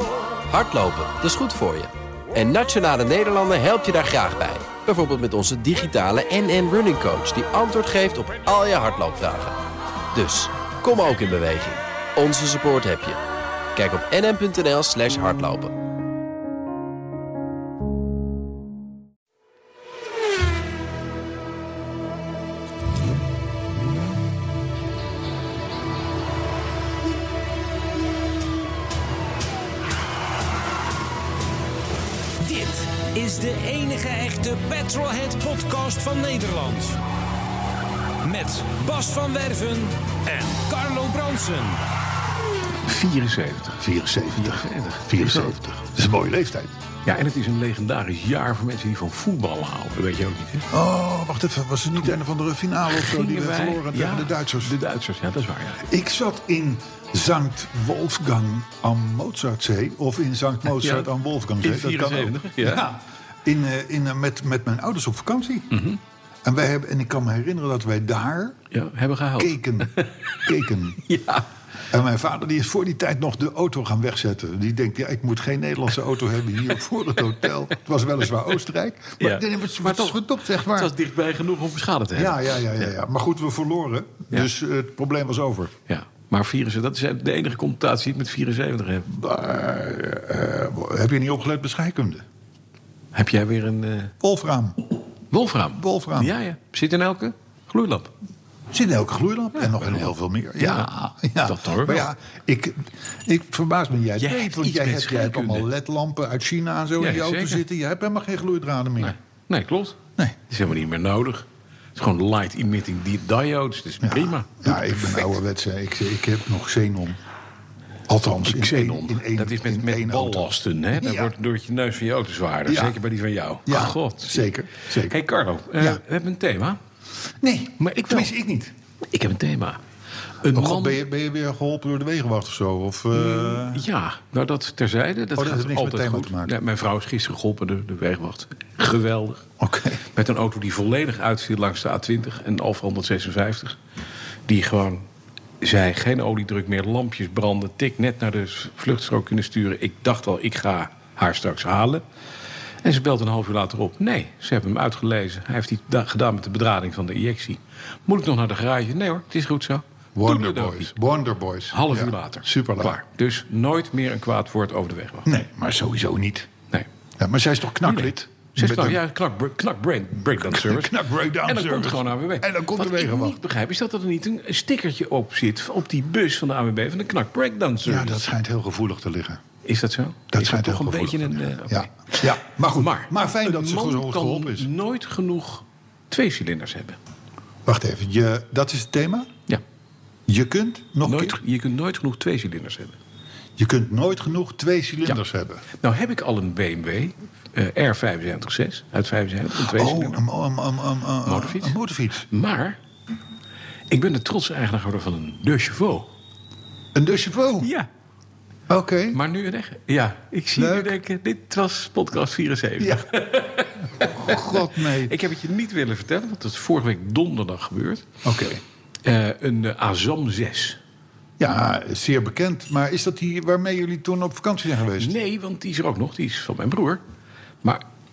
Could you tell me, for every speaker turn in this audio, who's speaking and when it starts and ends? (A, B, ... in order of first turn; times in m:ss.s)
0:00.5-0:09.6 A
0:10.1-0:13.2 A
0:13.8-0:15.7 A
0:32.4-0:37.0 B
0:38.2-0:41.8 B
0:42.8-0:45.8 C
0:43.8-0:46.7 D
0:47.0-0:50.7 C
0:50.7-0:54.7 D
0:52.9-0:55.8 C
0:55.8-1:05.7 D
1:00.7-1:01.1 C
1:01.6-1:02.8 C
1:05.7-1:06.0 C
1:06.4-1:08.6 D
1:08.7-1:10.1 C
1:09.4-1:11.0 D
1:11.0-1:11.4 C
1:11.9-1:20.9 D
1:19.2-1:22.9 C
1:22.1-1:25.7 D
1:25.9-1:29.1 C
1:29.1-1:32.2 D
1:33.1-1:34.1 C
1:34.2-1:34.9 D
1:35.3-1:38.1 C
1:35.8-1:36.3 D
1:38.7-1:49.2 D
1:39.5-1:40.9 C
1:41.4-1:42.1 C
1:44.2-1:45.7 C
1:47.0-1:47.6 C
1:49.0-1:55.4 C
1:54.0-1:57.2 D
1:58.1-2:01.3 D
1:58.4-2:06.8 C
2:02.7-2:03.0 D
2:03.6-2:05.2 D
2:07.4-2:08.7 D
2:07.8-2:08.3 C
2:09.1-2:09.8 C
2:10.4-2:11.0 C
2:10.5-2:13.8 D
2:13.1-2:19.4 C
2:15.4-2:16.5 D
2:19.6-2:20.0 D
2:20.1-2:23.8 C
2:24.5-2:25.0 C
2:25.6-2:32.0 C
2:32.8-2:40.9 C
2:40.1-2:43.0 D
2:41.7-2:45.3 C
2:45.2-2:46.5 D
2:47.2-2:49.0 D
2:47.8-2:58.2 C
2:50.3-2:53.4 D
2:57.8-2:59.4 D
2:59.6-3:07.0 C
3:00.3-3:04.7 D
3:07.6-3:09.3 D
3:10.3-3:11.4 D
3:11.0-3:13.0 C
3:13.6-3:15.6 D
3:15.8-3:20.2 C
3:19.6-3:22.3 D
3:21.2-3:22.8 C
3:23.9-3:26.1 C
3:26.9-3:27.7 D
3:27.6-3:27.9 C
3:28.7-3:29.2 D
3:29.1-3:38.1 C
3:30.6-3:31.0 D
3:32.8-3:33.1 D
3:33.9-3:35.1 D
3:38.2-3:38.6 D
3:39.0-3:40.8 C
3:41.4-3:45.1 D
3:45.0-3:47.0 C